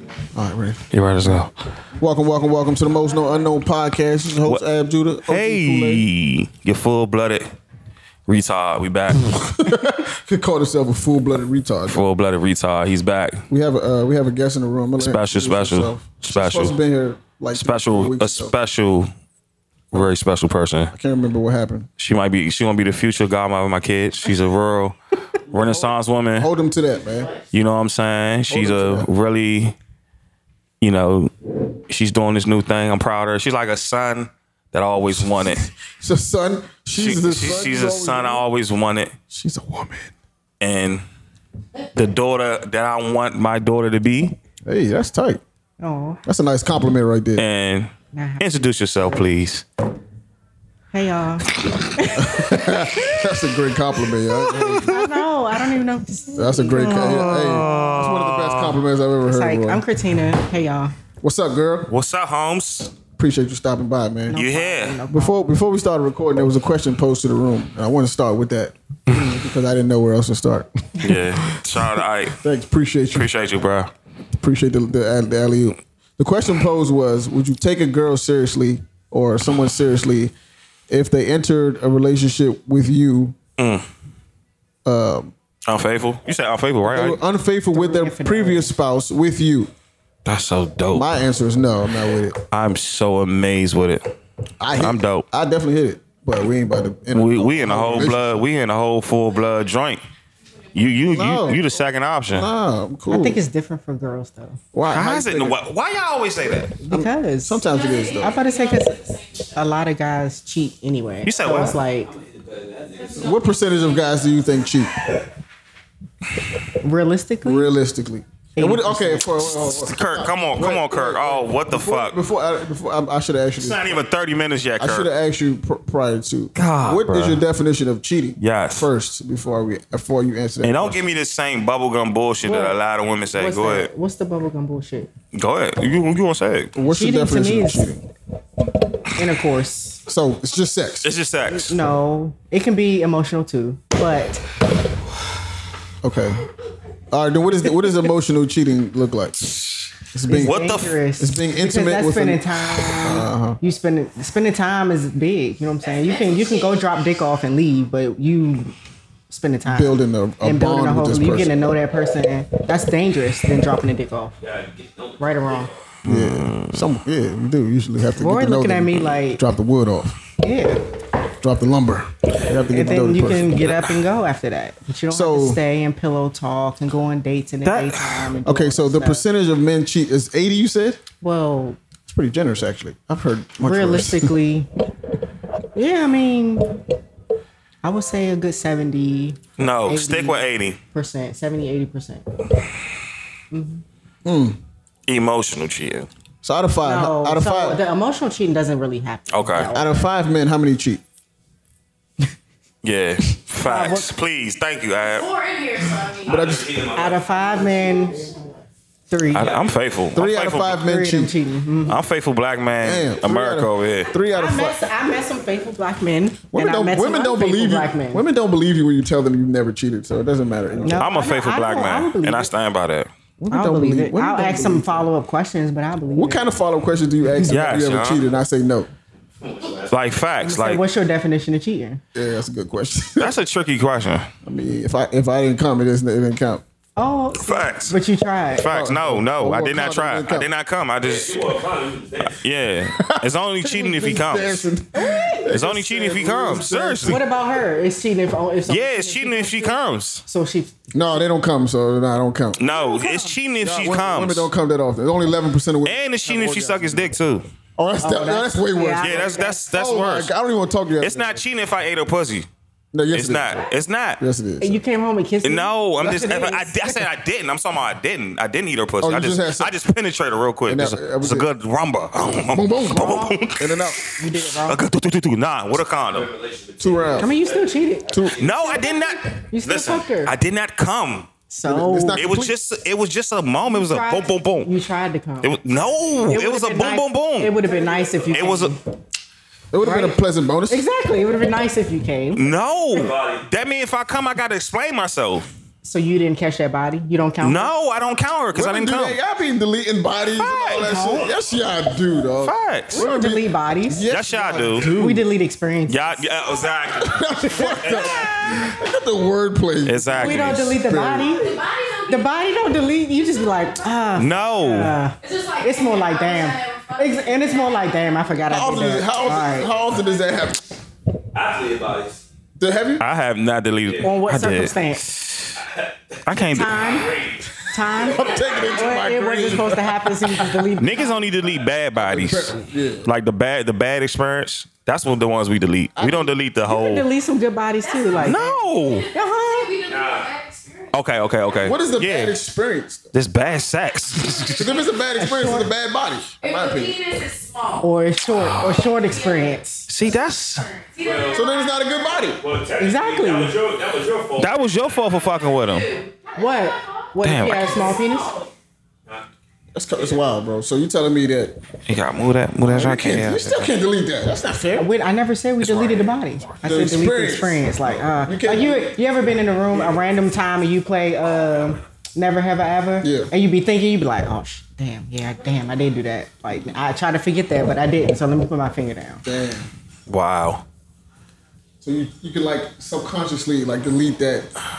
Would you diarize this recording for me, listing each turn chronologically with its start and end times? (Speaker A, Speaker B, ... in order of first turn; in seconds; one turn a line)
Speaker A: 0.3-6.1
Speaker B: 0.9-1.5
Speaker B: 5.2-7.5
Speaker B: 8.3-9.6
Speaker A: 9.3-12.0
Speaker B: 11.9-13.4
Speaker A: 13.5-18.5
Speaker B: 15.0-16.8
Speaker B: 17.5-19.1
Speaker B: 19.9-20.9
Speaker A: 20.9-21.9
Speaker B: 22.0-25.0
Speaker B: 25.5-26.5
Speaker A: 25.5-27.3
Speaker B: 27.5-29.8
Speaker A: 28.5-29.1
Speaker B: 30.8-31.3
Speaker B: 31.9-35.7
Speaker A: 36.0-38.5
Speaker B: 36.9-39.1
Speaker A: 39.3-40.1
Speaker B: 40.6-41.0
Speaker B: 41.9-44.4
Speaker A: 44.6-45.4
Speaker C: 45.8-46.2
Speaker A: 46.2-47.5
Speaker B: 47.4-49.6
Speaker C: 48.1-48.7
Speaker C: 50.9-52.8
Speaker A: 52.1-55.0
Speaker C: 54.4-58.1
Speaker B: 54.4-55.2
Speaker A: 56.3-59.8
Speaker B: 56.8-58.8
Speaker C: 59.2-60.9
Speaker A: 61.2-61.9
Speaker B: 61.9-63.0
Speaker A: 63.1-64.4
Speaker C: 64.3-65.5
Speaker B: 64.3-65.0
Speaker A: 65.1-73.3
Speaker B: 71.0-72.4
Speaker B: 73.1-73.9
Speaker A: 74.4-80.3
Speaker A: 80.9-83.3
Speaker B: 83.6-83.8
Speaker A: 84.8-85.3
Speaker B: 85.7-87.2
Speaker A: 86.8-89.7
Speaker C: 87.7-88.7
Speaker B: 90.2-91.1
Speaker A: 90.9-92.4
Speaker B: 92.5-94.1
Speaker A: 94.6-98.4
Speaker B: 94.7-95.2
Speaker B: 97.1-100.0
Speaker B: 100.7-102.5
Speaker D: 101.0-101.4
Speaker A: 101.1-101.7
Speaker A: 102.3-103.4
Speaker C: 103.1-104.6
Speaker A: 104.7-105.6
Speaker B: 104.9-106.8
Speaker C: 106.8-107.6
Speaker A: 106.9-108.4
Speaker D: 107.6-109.6
Speaker C: 108.2-109.0
Speaker C: 109.5-112.1
Speaker B: 111.2-111.8
Speaker E: 112.0-113.4
Speaker D: 112.9-114.0
Speaker A: 113.2-114.9
Speaker C: 116.8-117.7
Speaker A: 117.4-124.0
Speaker C: 118.5-119.4
Speaker B: 119.4-122.2
Speaker B: 123.6-125.1
Speaker A: 124.8-131.0
Speaker B: 126.5-127.4
Speaker B: 128.4-128.9
Speaker B: 130.6-133.9
Speaker C: 132.4-132.8
Speaker C: 133.3-135.1
Speaker B: 135.3-136.7
Speaker A: 136.7-138.0
Speaker C: 136.9-137.9
Speaker C: 139.1-140.0
Speaker A: 140.1-141.1
Speaker B: 141.0-141.8
Speaker C: 141.5-144.4
Speaker A: 146.0-146.4
Speaker A: 147.1-153.6
Speaker C: 150.3-158.7
Speaker B: 150.4-151.0
Speaker D: 155.8-156.8
Speaker C: 159.3-164.3
Speaker A: 159.6-161.6
Speaker E: 164.4-165.8
Speaker C: 165.2-165.7
Speaker B: 166.0-166.8
Speaker A: 166.0-170.2
Speaker C: 168.2-169.4
Speaker C: 170.4-170.8
Speaker A: 171.4-173.7
Speaker C: 172.7-179.2
Speaker A: 175.1-175.6
Speaker B: 177.7-178.2
Speaker A: 178.4-181.0
Speaker C: 181.2-181.8
Speaker A: 182.1-184.3
Speaker C: 183.6-184.7
Speaker C: 185.7-186.8
Speaker C: 187.8-192.2
Speaker B: 189.6-190.8
Speaker C: 193.5-193.8
Speaker A: 194.2-194.6
Speaker B: 195.1-196.1
Speaker A: 196.4-197.8
Speaker C: 196.8-200.1
Speaker B: 199.3-199.7
Speaker A: 199.7-201.0
Speaker B: 202.8-205.3
Speaker C: 203.6-204.1
Speaker D: 205.0-206.5
Speaker E: 206.2-208.1
Speaker A: 206.2-206.7
Speaker C: 206.9-208.3
Speaker C: 209.1-209.6
Speaker B: 209.3-210.8
Speaker E: 209.3-209.8
Speaker A: 210.1-211.3
Speaker C: 210.8-212.0
Speaker B: 211.9-214.1
Speaker A: 212.8-214.8
Speaker C: 214.2-218.2
Speaker A: 216.5-221.0
Speaker C: 220.8-222.5
Speaker B: 221.0-223.1
Speaker A: 223.4-225.1
Speaker C: 223.5-226.4
Speaker A: 226.1-228.9
Speaker B: 227.4-228.2
Speaker E: 229.4-230.0
Speaker B: 229.9-230.8
Speaker C: 230.4-232.0
Speaker A: 232.1-233.3
Speaker B: 233.2-234.3
Speaker A: 234.4-236.6
Speaker C: 237.0-238.7
Speaker B: 237.3-237.9
Speaker B: 238.6-241.5
Speaker A: 238.6-240.5
Speaker E: 241.0-242.4
Speaker B: 242.4-244.7
Speaker A: 243.0-247.2
Speaker C: 244.9-245.5
Speaker B: 245.5-247.2
Speaker C: 247.0-250.8
Speaker B: 248.7-250.2
Speaker A: 250.9-252.6
Speaker B: 252.6-254.5
Speaker C: 252.7-253.3
Speaker A: 253.6-257.1
Speaker B: 255.8-257.5
Speaker A: 257.8-261.4
Speaker C: 258.0-259.6
Speaker B: 258.9-260.3
Speaker B: 261.0-262.5
Speaker A: 262.9-263.6
Speaker B: 263.1-264.2
Speaker A: 264.2-264.8
Speaker C: 264.6-267.1
Speaker B: 265.4-276.3
Speaker A: 269.0-269.8
Speaker A: 270.7-271.5
Speaker A: 272.4-274.0
Speaker C: 273.0-273.3
Speaker C: 274.2-274.8
Speaker E: 276.1-278.7
Speaker A: 276.8-277.3
Speaker C: 277.2-280.3
Speaker A: 278.1-278.4
Speaker B: 278.3-281.3
Speaker C: 281.5-282.2
Speaker A: 281.6-282.6
Speaker B: 282.1-284.7
Speaker C: 283.6-285.6
Speaker B: 285.4-287.6
Speaker C: 286.2-288.8
Speaker E: 287.6-288.4
Speaker B: 288.3-288.7
Speaker A: 289.7-290.9
Speaker C: 289.8-292.4
Speaker B: 292.3-295.5
Speaker E: 292.8-293.4
Speaker C: 295.8-297.7
Speaker B: 297.4-299.2
Speaker A: 298.5-305.3
Speaker B: 300.4-300.8
Speaker C: 300.4-301.3
Speaker B: 302.4-303.0
Speaker C: 302.9-304.1
Speaker B: 304.1-304.9
Speaker C: 304.8-306.3
Speaker B: 305.9-308.7
Speaker A: 307.0-311.3
Speaker E: 307.9-308.3
Speaker B: 309.8-310.8
Speaker C: 310.2-311.5
Speaker D: 311.2-314.2
Speaker C: 312.1-319.7
Speaker B: 314.1-314.9
Speaker D: 315.2-320.1
Speaker A: 318.5-320.7
Speaker E: 321.3-322.2
Speaker A: 322.6-323.0
Speaker B: 323.0-325.6
Speaker C: 324.0-325.1
Speaker E: 325.5-329.0
Speaker B: 326.2-326.9
Speaker C: 326.4-331.4
Speaker A: 328.0-330.7
Speaker B: 330.8-337.1
Speaker A: 331.9-333.1
Speaker A: 336.0-336.3
Speaker C: 336.6-338.6
Speaker D: 337.8-340.9
Speaker B: 338.2-339.1
Speaker C: 339.1-339.7
Speaker E: 339.9-340.3
Speaker B: 340.9-342.3
Speaker A: 341.6-343.1
Speaker B: 343.1-344.7
Speaker D: 344.3-344.8
Speaker A: 344.6-346.9
Speaker C: 345.2-345.7
Speaker D: 346.4-347.9
Speaker C: 347.8-349.9
Speaker D: 348.9-352.3
Speaker B: 349.9-350.7
Speaker E: 351.0-351.5
Speaker A: 351.3-352.4
Speaker E: 352.4-354.7
Speaker C: 352.8-353.6
Speaker B: 354.4-355.9
Speaker D: 354.8-358.5
Speaker C: 356.4-358.3
Speaker B: 357.2-358.0
Speaker A: 359.7-361.6
Speaker B: 361.9-363.7
Speaker A: 362.6-364.9
Speaker C: 364.8-379.2
Speaker B: 365.7-366.1
Speaker A: 366.6-369.0
Speaker A: 373.0-373.3
Speaker A: 379.2-379.7
Speaker B: 380.1-380.6
Speaker A: 381.8-384.5